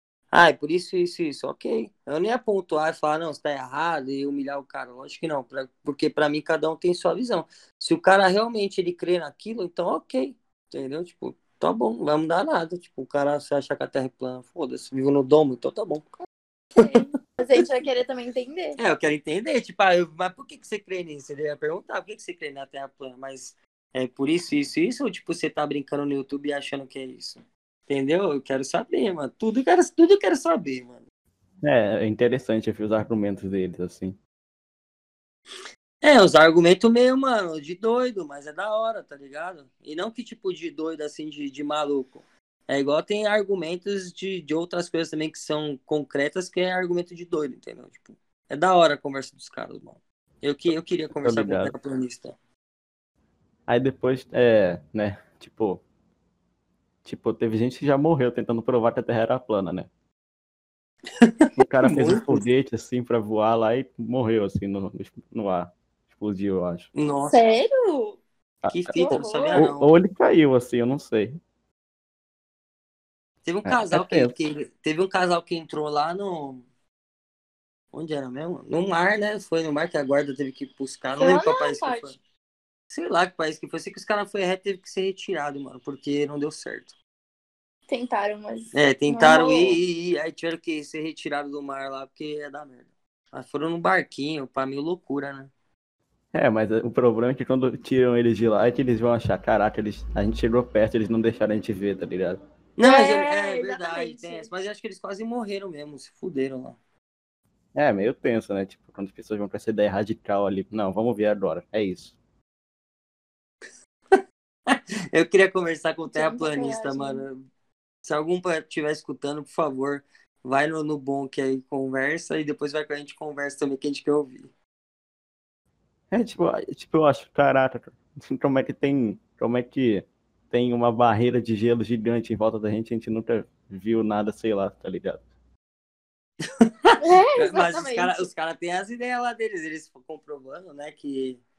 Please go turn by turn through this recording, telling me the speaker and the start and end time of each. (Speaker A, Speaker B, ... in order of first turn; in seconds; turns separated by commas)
Speaker A: 0.3-16.1, Speaker B: 16.8-18.8, Speaker A: 18.8-31.0, Speaker C: 31.6-34.2, Speaker A: 36.0-52.4, Speaker C: 51.2-51.7, Speaker C: 53.7-55.8, Speaker C: 57.0-59.9, Speaker A: 61.2-62.4, Speaker C: 61.6-66.9, Speaker A: 66.9-67.4, Speaker B: 67.3-68.2, Speaker C: 68.6-71.4, Speaker A: 68.7-69.9, Speaker B: 68.9-69.7, Speaker A: 73.4-76.6, Speaker C: 73.6-74.3, Speaker A: 77.9-82.2, Speaker B: 81.2-82.1, Speaker A: 82.9-86.9, Speaker B: 87.9-89.8, Speaker A: 88.7-95.5, Speaker C: 96.3-102.4, Speaker A: 102.8-106.8, Speaker B: 102.8-104.5, Speaker C: 107.7-112.2, Speaker A: 114.1-117.4, Speaker B: 116.1-117.2, Speaker A: 118.0-124.5, Speaker C: 126.1-135.2, Speaker A: 136.4-141.4, Speaker B: 137.0-138.3